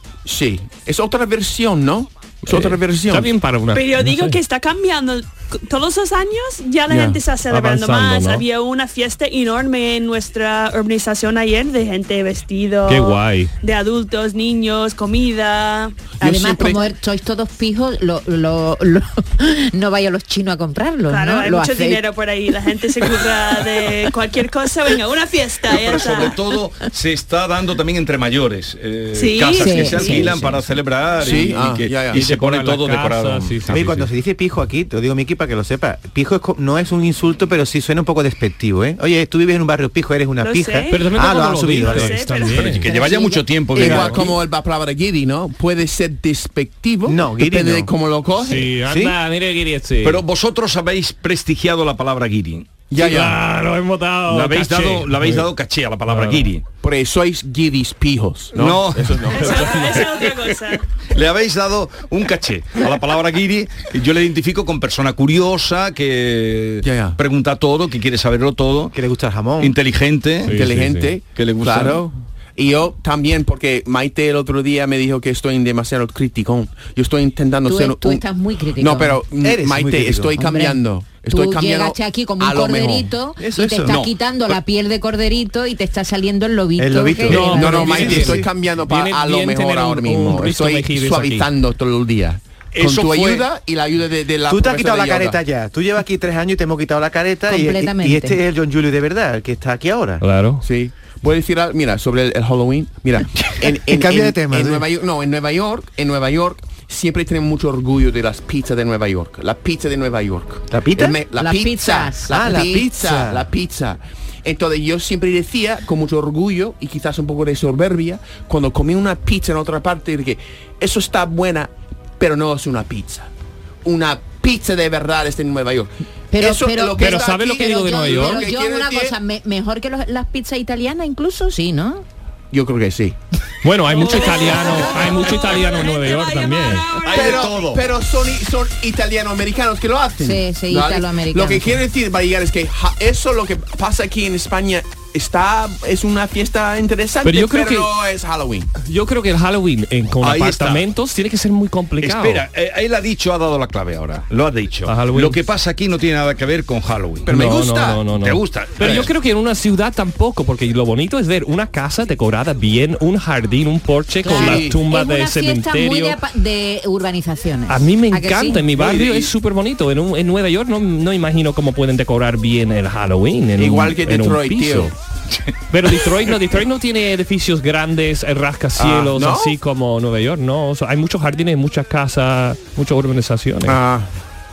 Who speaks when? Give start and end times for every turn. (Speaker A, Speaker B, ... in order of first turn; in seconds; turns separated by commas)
Speaker A: 0.3-3.3, Speaker B: 2.5-4.4, Speaker C: 3.7-16.0, Speaker A: 6.9-7.2, Speaker B: 7.5-8.4, Speaker B: 12.9-13.5, Speaker A: 16.2-16.9, Speaker D: 16.2-22.0, Speaker C: 21.1-26.4, Speaker E: 25.7-33.9, Speaker C: 29.1-30.2, Speaker D: 29.6-30.5, Speaker A: 31.2-32.2, Speaker B: 32.1-34.1, Speaker F: 33.7-42.3, Speaker C: 40.4-41.1, Speaker B: 40.9-42.9, Speaker C: 41.7-43.3, Speaker E: 42.5-44.4, Speaker A: 43.7-48.7, Speaker B: 43.8-44.2, Speaker F: 47.1-47.9, Speaker B: 48.4-50.2, Speaker F: 48.9-49.2, Speaker E: 50.0-52.9, Speaker A: 52.9-53.4, Speaker B: 53.0-55.5, Speaker E: 54.3-56.6, Speaker B: 56.1-56.5, Speaker A: 56.8-59.7, Speaker E: 58.5-59.3, Speaker B: 59.3-60.1, Speaker C: 59.3-60.9, Speaker E: 61.1-69.0, Speaker A: 66.8-67.2, Speaker F: 68.9-69.8, Speaker E: 69.6-70.7, Speaker B: 70.5-71.1, Speaker A: 70.5-78.2, Speaker E: 71.3-72.0, Speaker D: 77.7-79.2, Speaker A: 78.8-83.1, Speaker F: 79.4-80.4, Speaker D: 80.4-88.3, Speaker F: 83.4-84.0, Speaker E: 83.8-84.5, Speaker F: 86.8-88.5, Speaker B: 87.3-91.5, Speaker A: 87.5-95.4, Speaker E: 92.7-93.5, Speaker F: 94.5-100.2, Speaker D: 97.5-98.4, Speaker B: 100.2-100.7, Speaker A: 100.6-123.3, Speaker F: 103.6-104.9, Speaker F: 110.7-111.2, Speaker D: 111.4-112.5, Speaker F: 112.3-113.5, Speaker A: 123.8-129.2, Speaker D: 126.3-132.1, Speaker B: 127.0-128.5, Speaker A: 132.5-133.2, Speaker B: 133.6-136.9, Speaker C: 133.9-137.5, Speaker E: 137.0-137.9, Speaker A: 137.1-148.7, Speaker D: 140.2-141.8, Speaker B: 147.2-147.9, Speaker B: 148.8-152.4, Speaker E: 150.2-150.9, Speaker E: 152.0-157.3, Speaker B: 154.9-155.4, Speaker A: 157.2-158.1, Speaker B: 157.3-166.2, Speaker E: 158.1-159.1, Speaker D: 164.2-168.7, Speaker A: 164.3-164.8, Speaker B: 167.7-174.9, Speaker A: 168.8-169.3, Speaker A: 173.6-174.9, Speaker B: 175.7-183.8, Speaker A: 178.8-179.6, Speaker A: 183.7-184.1